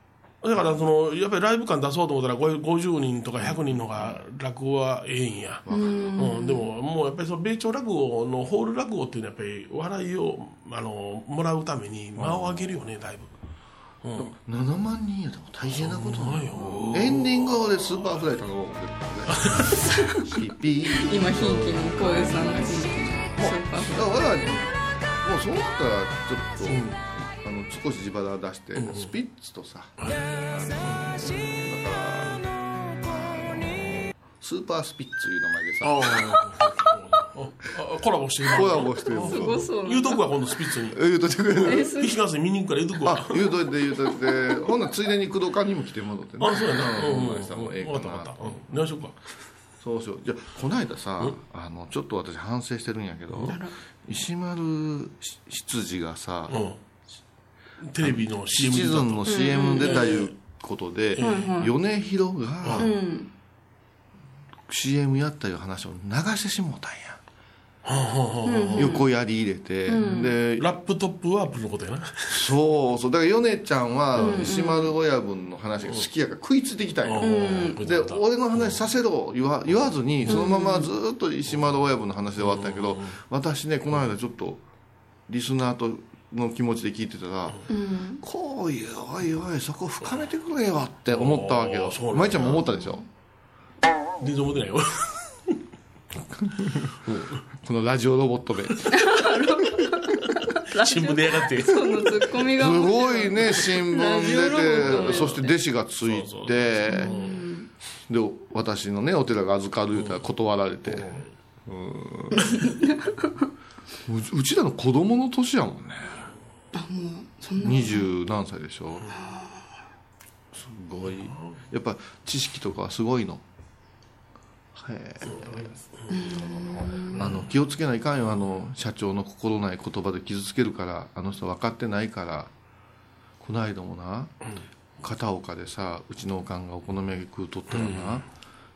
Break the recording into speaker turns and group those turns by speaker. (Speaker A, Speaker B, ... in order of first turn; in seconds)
Speaker A: 0.4-13.3, 14.0-14.3, 15.7-18.0, 19.3-19.7, 21.5-22.5, 26.6-27.0, 28.8-29.1, 30.0-30.3, 35.8-41.0, 41.5-43.5, 46.4-49.1, 56.5-56.8, 57.8-60.3, 61.1-61.5, 62.6-62.9, 67.8-69.0, 70.6-72.5, 74.2-74.4, 77.0-78.8, 82.4-83.2, 91.1-92.7, 94.2-95.5, 97.0-97.4, 100.8-102.3, 104.2-105.5, 106.0-107.4, 109.9-110.2, 110.8-111.3, 121.1-121.6, 125.2-126.3, 127.1-127.4, 137.7-138.2
Speaker B: 3.4-4.2, 5.6-6.2, 12.2-12.7, 14.2-24.7, 25.2-36.4, 38.5-39.6, 40.9-41.9, 43.0-48.6, 49.8-56.6, 58.0-62.9, 64.7-67.2, 68.8-70.7, 72.3-84.6, 85.3-87.6, 88.2-93.0, 96.3-97.1, 97.6-99.0, 102.5-107.2, 108.1-111.1, 111.7-112.5, 114.0-116.2, 117.6-119.1, 120.5-123.4, 124.7-125.8, 126.3-132.5, 133.4-134.4, 135.0-138.2
Speaker C: 5.7-6.7, 19.7-20.3, 20.9-24.0, 39.2-40.2, 41.6-42.2, 53.4-53.7, 59.3-60.1, 61.2-61.7, 62.8-63.3, 68.4-69.1, 69.9-70.3, 74.2-74.9, 77.2-77.8, 80.3-80.9, 87.7-88.2, 98.9-105.5, 106.9-107.7, 112.4-113.4, 116.7-118.1, 119.1-119.7, 126.1-127.2